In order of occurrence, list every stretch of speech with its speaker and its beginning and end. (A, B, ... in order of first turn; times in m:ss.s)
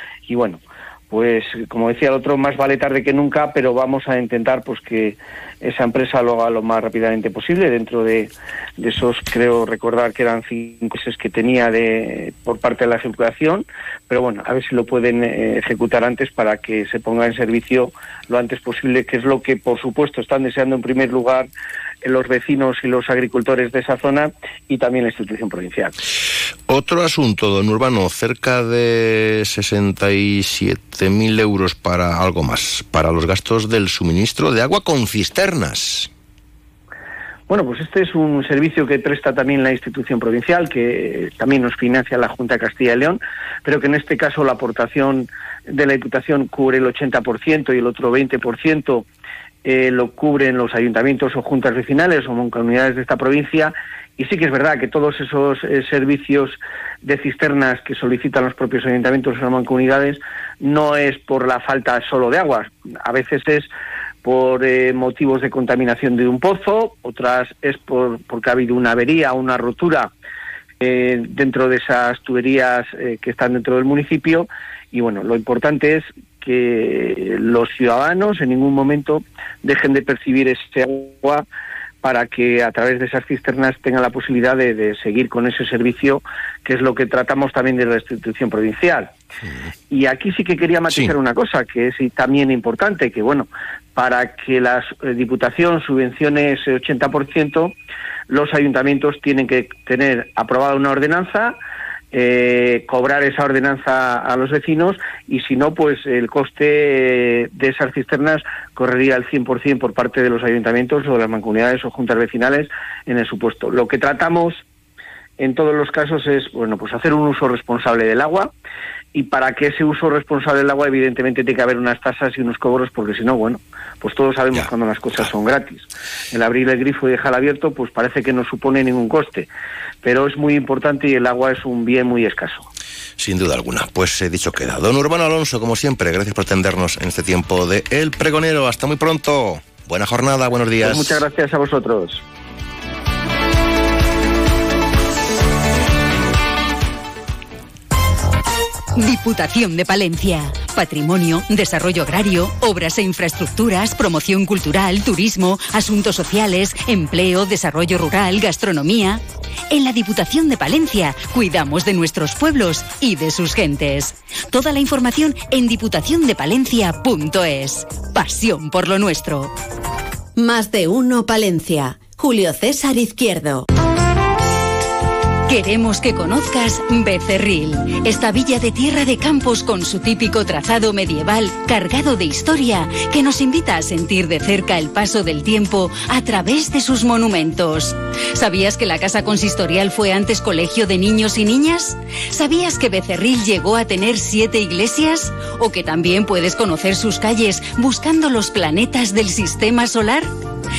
0:00.3-0:21.5 A
0:22.0-0:25.9 A
0:26.7-0:36.1 B
0:37.5-0:49.0 A
0:49.6-1:03.7 A
1:04.2-1:10.1 A
1:10.8-1:21.4 A
1:22.0-1:29.1 A
1:29.4-1:29.7 B
1:29.9-1:37.7 A
1:30.9-1:31.1 B
1:38.3-1:41.6 A
1:42.1-1:54.6 A
1:55.4-1:58.5 A
1:59.1-2:09.5 A
2:04.5-2:05.3 B
2:10.0-2:12.7 A
2:13.2-2:21.2 B
2:20.8-2:22.2 A
2:29.0-2:49.5 C
2:50.4-2:53.6 D
2:55.5-3:20.3 C